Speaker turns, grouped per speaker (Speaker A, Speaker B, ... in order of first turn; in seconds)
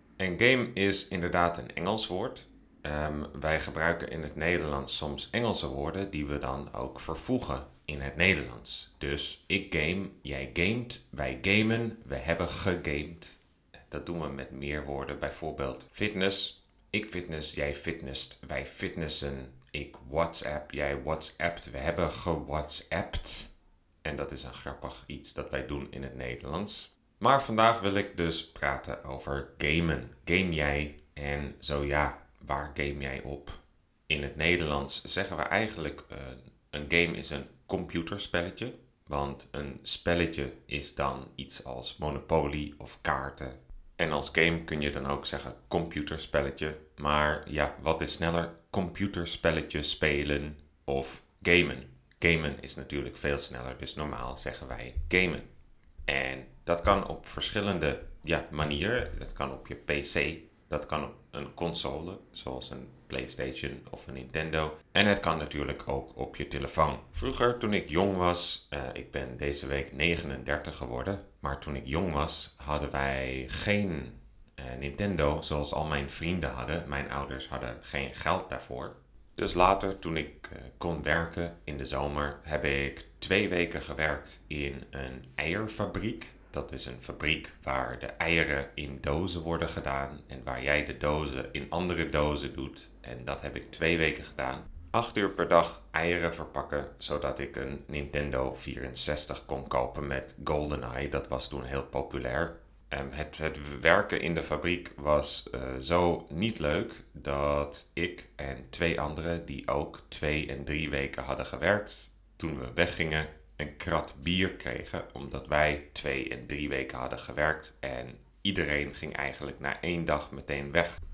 Speaker A: 0.2-13.4, 13.9-23.5, 24.0-55.5, 56.1-121.0